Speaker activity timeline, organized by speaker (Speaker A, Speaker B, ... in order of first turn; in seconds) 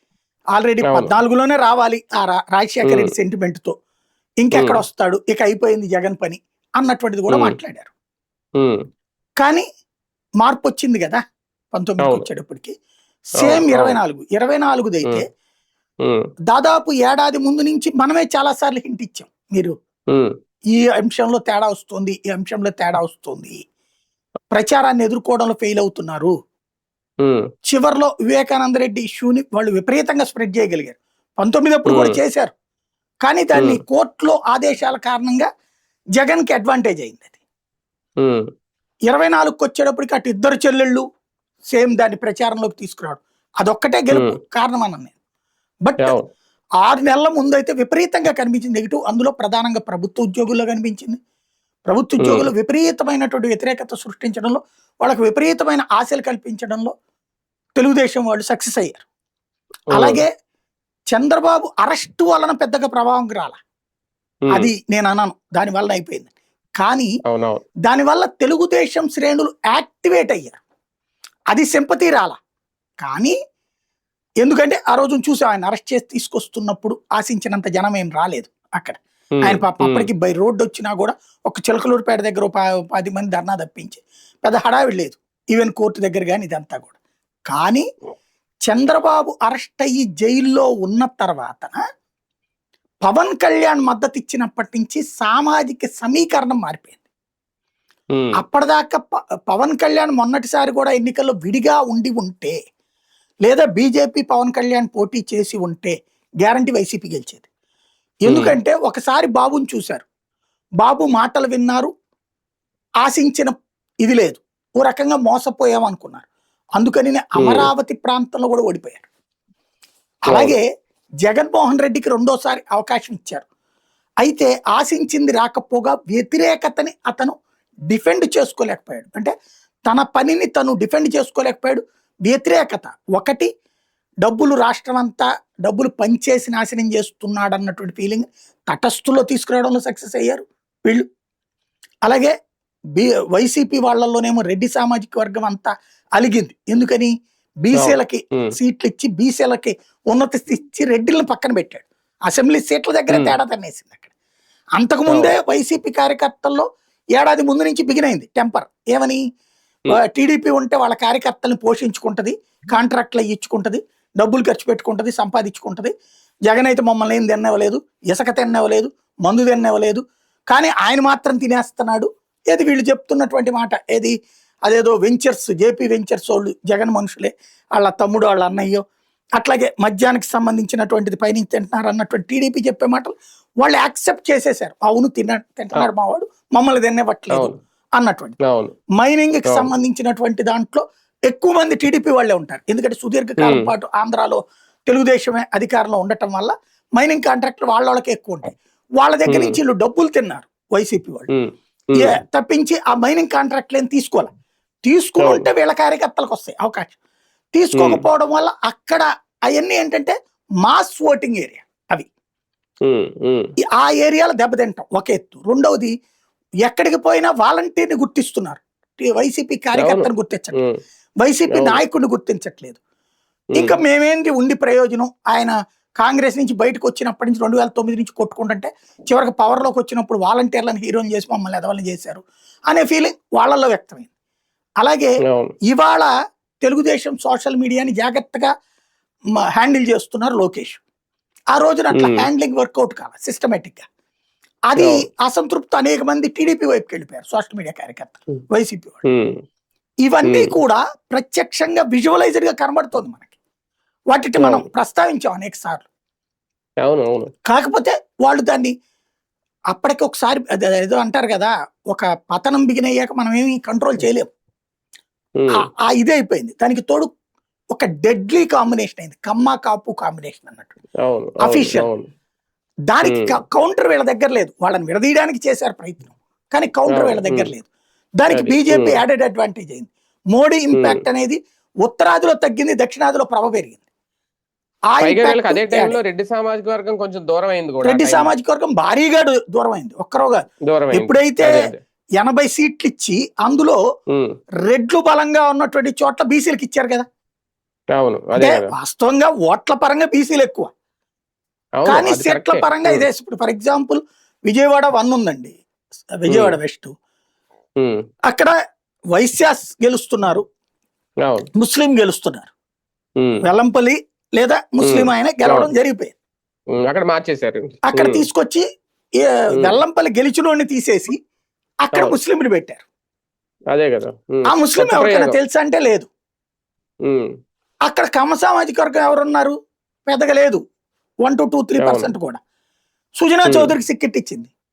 Speaker A: 0.5-3.7, 4.4-7.9, 9.4-9.6, 10.4-11.2, 11.7-12.7, 13.4-15.3, 16.5-19.7, 20.7-23.6, 24.5-26.3, 27.7-32.5, 33.2-35.5, 36.2-37.4, 39.1-41.0, 41.7-45.1, 45.8-46.2, 46.8-51.2, 51.9-56.9, 57.8-59.0, 59.9-60.3, 61.1-63.6, 64.5-67.1, 67.8-70.6, 71.5-72.4, 73.0-73.3, 74.4-86.9, 87.5-87.8, 88.7-91.8, 93.0-97.0, 98.3-102.5, 103.4-107.5, 108.2-110.0, 110.8-111.9, 113.0-113.5, 114.0-116.2, 116.8-119.1, 120.3-120.6, 121.2-123.5, 124.2-127.3, 127.9-129.3, 129.9-133.5, 134.2-141.0, 142.1-142.3, 142.9-147.1, 147.6-154.1, 154.8-159.2, 159.9-165.9, 166.5-174.1, 174.7-178.8, 179.4-188.3, 188.9-201.3, 201.9-204.3, 204.8-206.9, 207.5-212.1, 213.6-215.9, 216.6-220.6, 221.2-222.8, 223.6-234.1, 234.8-235.1, 235.7-236.1, 236.6-238.5, 239.6-240.8, 241.5-243.9, 244.7-249.0, 250.0-253.3, 254.1-255.8, 257.4-258.7, 259.7-264.3, 265.5-267.1, 267.7-270.8, 271.4-271.9, 272.9-283.8, 284.9-286.0, 287.8-291.5, 292.2-293.8, 294.6-297.0, 298.4-300.7, 301.9-305.6, 306.2-306.9, 308.3-308.5, 309.1-310.4, 311.6-312.5, 313.4-316.1, 317.9-318.6, 319.2-321.2, 321.9-322.8, 324.5-326.1, 327.9-329.5, 330.1-330.6, 331.2-332.4, 333.2-334.5
Speaker B: 0.8-1.1, 2.9-3.1, 4.5-4.8, 7.3-7.6, 12.0-12.3, 13.4-14.0, 27.2-27.5, 31.9-32.2, 33.5-33.8, 38.2-38.5, 52.2-52.5, 59.9-60.2, 67.2-67.6, 79.4-80.1, 108.3-108.5, 117.4-117.7, 120.3-120.5, 147.7-148.5, 153.1-153.3, 155.1-155.3, 187.3-187.6, 188.4-188.8, 193.4-193.7, 199.3-199.6, 201.3-202.2, 205.2-205.4, 207.7-208.0, 212.8-213.5, 219.8-220.8, 221.5-221.8, 235.3-235.5, 242.0-242.2, 244.8-245.0, 249.0-249.4, 250.2-250.5, 254.4-254.7, 256.8-257.3, 265.4-265.6, 271.0-272.1, 276.9-277.5, 278.3-279.0, 280.7-281.0, 285.0-288.3, 290.7-291.8, 297.9-298.7, 301.8-303.0, 306.3-306.6, 314.8-315.7, 316.7-318.2, 323.7-325.3, 327.1-327.3, 331.8-332.1, 333.4-333.7